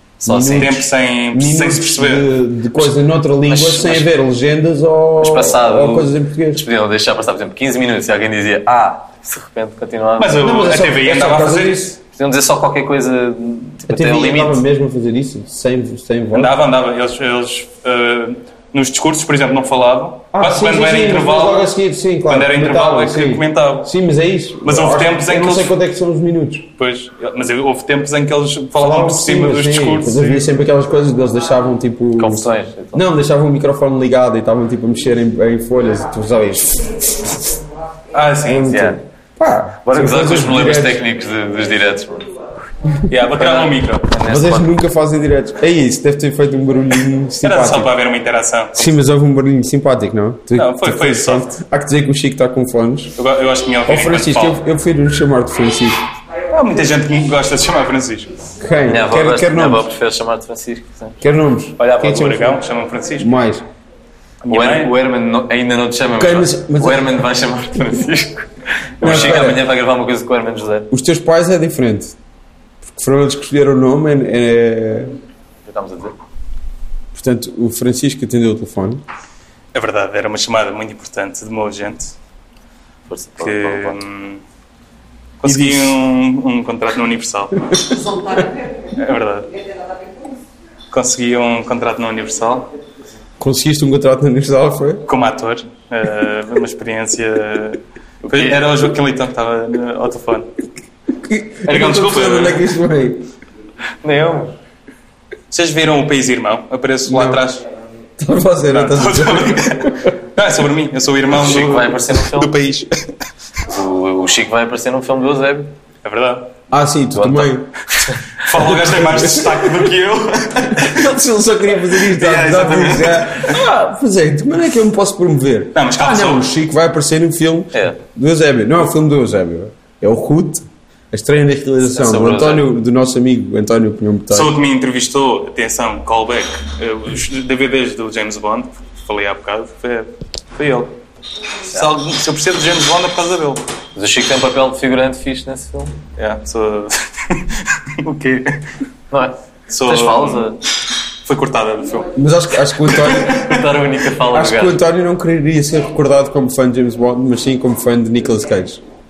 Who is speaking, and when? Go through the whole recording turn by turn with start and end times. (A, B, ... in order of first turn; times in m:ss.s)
0:00.2-0:00.8 A
0:00.2-0:06.6 B
0:00.5-0:02.3 C
0:03.5-0:04.1 A
0:05.2-0:10.5 A
0:10.2-0:11.9 C
0:10.4-0:12.0 B
0:12.1-0:14.6 A
0:13.9-0:16.5 B
0:16.3-0:21.7 C
0:20.3-0:26.7 B
0:22.3-0:23.9 C
0:24.6-0:25.7 C
0:26.8-0:30.4 C
0:28.8-0:37.6 B
0:32.2-0:33.0 A
0:38.1-0:38.8 C
0:38.4-0:41.0 B
0:38.7-0:39.0 A
0:39.8-0:42.3 A
0:43.1-0:44.1 C
0:43.4-0:44.8 A
0:44.2-0:47.9 B
0:47.4-0:48.9 C
0:48.8-0:53.1 B
0:50.6-0:51.6 C
0:53.2-0:54.6 C
0:53.9-0:56.1 B
0:56.5-0:58.3 C
0:58.6-0:59.9 B
0:58.9-1:01.2 A
1:01.2-1:02.6 B
1:01.8-1:03.3 C
1:03.2-1:03.6 B
1:04.4-1:04.9 C
1:04.5-1:10.9 A
1:06.2-1:07.2 B
1:09.0-1:09.7 B
1:10.9-1:12.1 B
1:12.8-1:15.2 B
1:15.6-1:16.1 A
1:17.1-1:19.0 B
1:19.7-1:22.1 C
1:23.1-1:24.0 A
1:23.4-1:24.4 C
1:25.4-1:28.1 C
1:25.4-1:26.0 B
1:28.9-1:29.5 C
1:30.9-1:32.7 C
1:33.4-1:35.0 B
1:35.1-1:40.5 C
1:38.2-1:38.6 A
1:41.2-1:43.3 B
1:41.6-1:42.7 C
1:44.0-1:44.5 A
1:45.5-1:47.6 C
1:47.1-1:47.4 B
1:48.2-1:50.1 B
1:48.7-1:53.1 C
1:51.3-1:52.5 A
1:53.7-1:55.7 A
1:56.0-1:56.5 C
1:56.7-1:57.7 B
1:57.2-1:58.4 A
1:58.4-2:01.1 C
1:58.5-1:59.9 B
2:00.7-2:14.6 B
2:01.9-2:03.6 C
2:05.8-2:06.4 C
2:07.7-2:08.0 A
2:11.9-2:12.7 A
2:14.3-2:20.9 C
2:21.7-2:23.6 C
2:23.9-2:26.0 A
2:26.2-2:28.6 C
2:29.1-2:30.6 A
2:29.7-2:30.6 C
2:31.2-2:32.1 C
2:32.2-2:33.4 B
2:32.8-2:33.6 C
2:33.2-2:34.8 A
2:34.3-2:38.8 B